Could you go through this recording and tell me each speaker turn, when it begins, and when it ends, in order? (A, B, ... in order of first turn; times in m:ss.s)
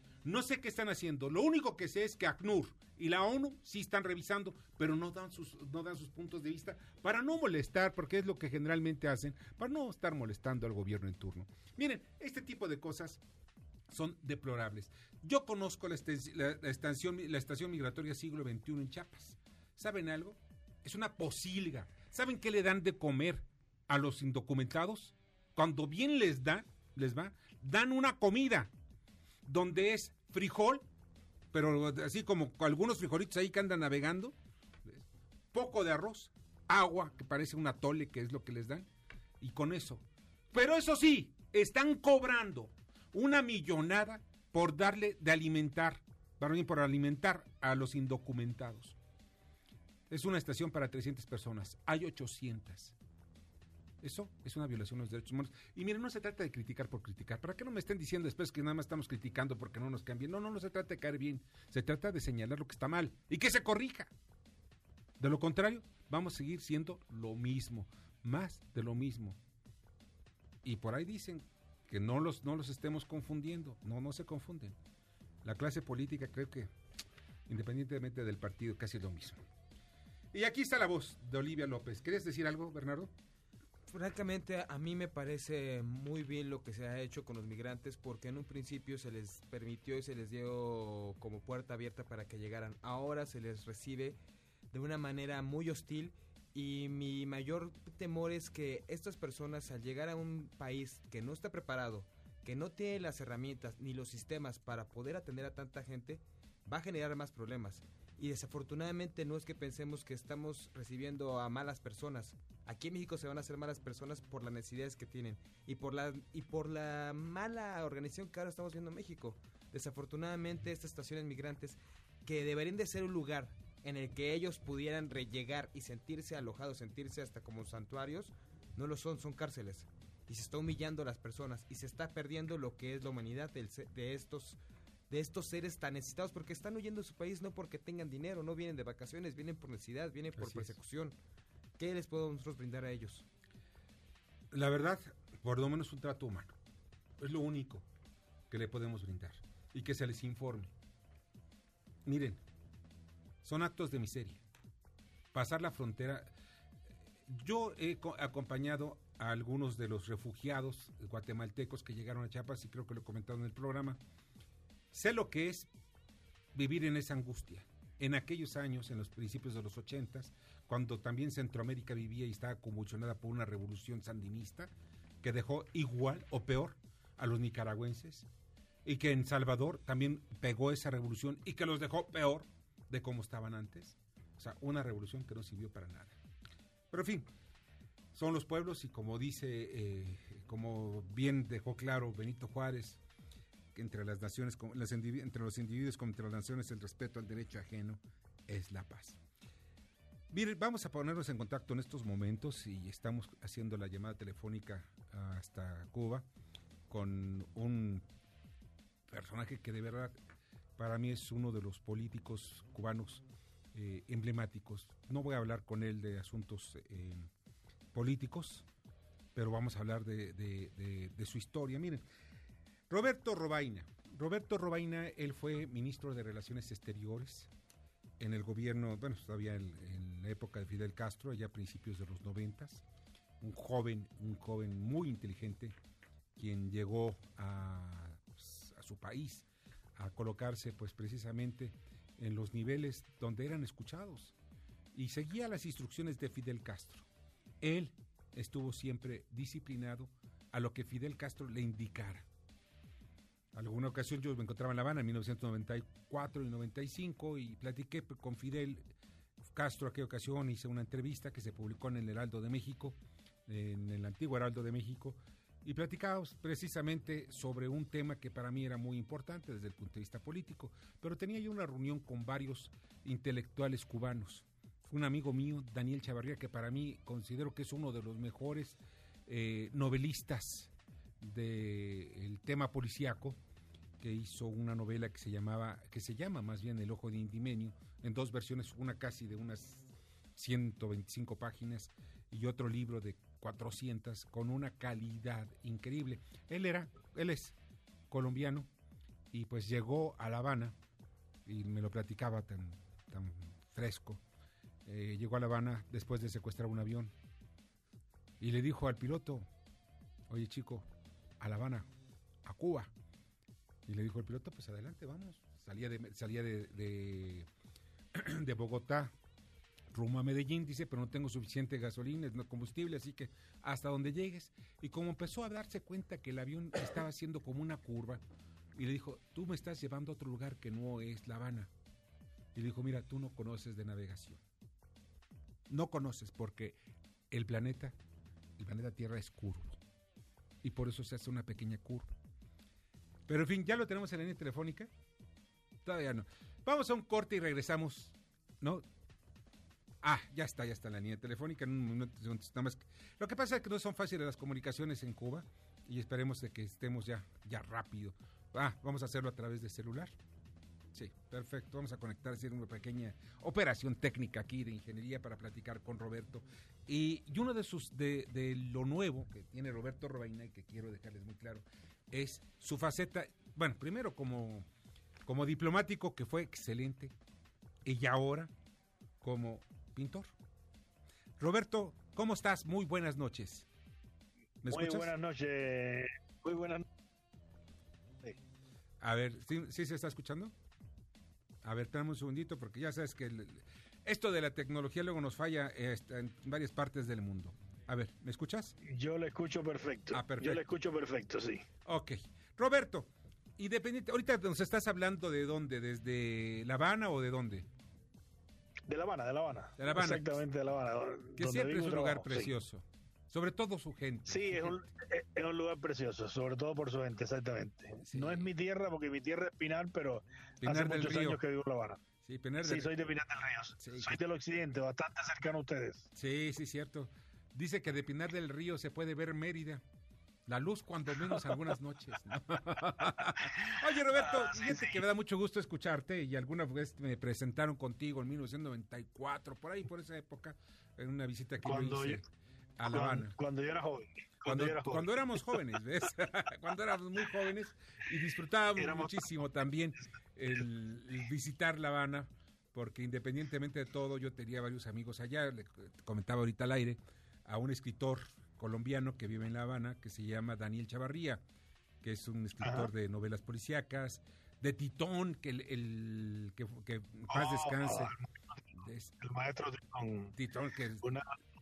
0:00.2-0:13.2 A
0:13.9-0:28.7 A
0:29.4-0:30.8 A
0:31.5-0:38.9 A
0:39.4-0:49.0 A
0:50.1-0:52.9 A
0:54.0-1:04.1 A
1:05.2-1:09.4 A
1:10.6-1:14.8 A
1:15.4-1:16.7 A
1:17.5-1:19.4 A
1:20.3-1:23.1 A
1:23.9-1:34.2 B
1:34.7-2:14.6 B
2:15.1-2:21.2 B
2:20.4-2:20.7 A
2:21.8-2:23.2 B
2:24.5-2:26.5 A
2:27.2-2:27.9 A
2:28.5-2:30.7 A
2:32.0-2:32.4 A
2:33.4-2:34.4 A
2:35.3-2:36.3 A
2:37.3-2:44.0 A
2:44.9-2:45.7 A
2:46.5-2:54.7 A
2:55.2-2:58.3 A
2:58.8-3:06.2 A
3:06.9-3:07.3 A
3:08.1-3:13.0 A
3:13.7-3:19.2 A
3:20.3-3:26.2 A
3:26.9-3:28.0 A
3:29.1-3:30.2 A
3:30.8-3:33.2 A
3:33.7-3:37.3 A
3:37.9-3:38.6 A
3:39.3-3:42.0 A
3:42.9-3:47.5 A
3:48.2-3:52.8 A
3:53.4-3:55.8 A
3:56.4-4:04.3 A
4:04.9-4:07.0 A
4:07.6-4:12.2 A
4:13.5-4:18.9 A
4:19.5-4:43.4 A
4:44.0-4:57.6 A
4:58.1-4:58.7 A
4:59.3-5:00.8 A
5:01.4-5:04.2 A
5:04.9-5:07.1 A
5:08.4-5:09.5 A
5:10.3-5:10.9 A
5:11.4-5:11.9 A
5:12.4-5:12.9 A
5:13.9-5:17.5 A
5:18.1-5:19.1 A
5:19.9-5:28.2 A
5:28.8-5:31.7 A
5:32.5-5:34.4 A
5:35.7-5:36.8 A
5:37.3-5:37.9 A
5:38.6-5:39.8 A
5:40.6-5:42.1 A
5:43.3-5:44.9 A
5:45.8-5:48.8 A
5:50.0-6:00.1 A
6:00.9-6:14.6 A
6:15.2-6:17.1 A
6:17.8-6:18.5 A
6:19.2-6:20.3 A
6:21.4-6:23.7 A
6:24.6-6:25.1 A
6:24.6-6:26.8 C
6:29.0-6:30.5 A
6:31.6-6:38.7 A
6:38.8-6:41.6 C
6:40.1-6:40.6 A
6:41.8-6:47.7 A
6:48.9-6:52.5 C
6:49.8-6:50.4 A
6:51.4-6:54.8 A
6:54.3-7:02.0 C
6:58.0-6:58.5 A
7:00.6-7:01.4 A
7:02.2-7:02.9 A
7:02.6-7:06.1 C
7:03.8-7:04.2 A
7:06.1-7:09.8 A
7:10.5-7:22.2 A
7:14.3-7:15.0 C
7:21.6-7:22.2 C
7:22.8-7:23.4 A
7:22.9-7:25.1 C
7:24.4-7:41.4 A
7:28.8-7:29.1 C
7:42.0-7:48.1 A
7:42.6-7:42.9 C
7:47.3-7:48.2 C
7:48.7-7:49.1 A
7:49.2-7:50.3 C
7:50.4-7:51.0 A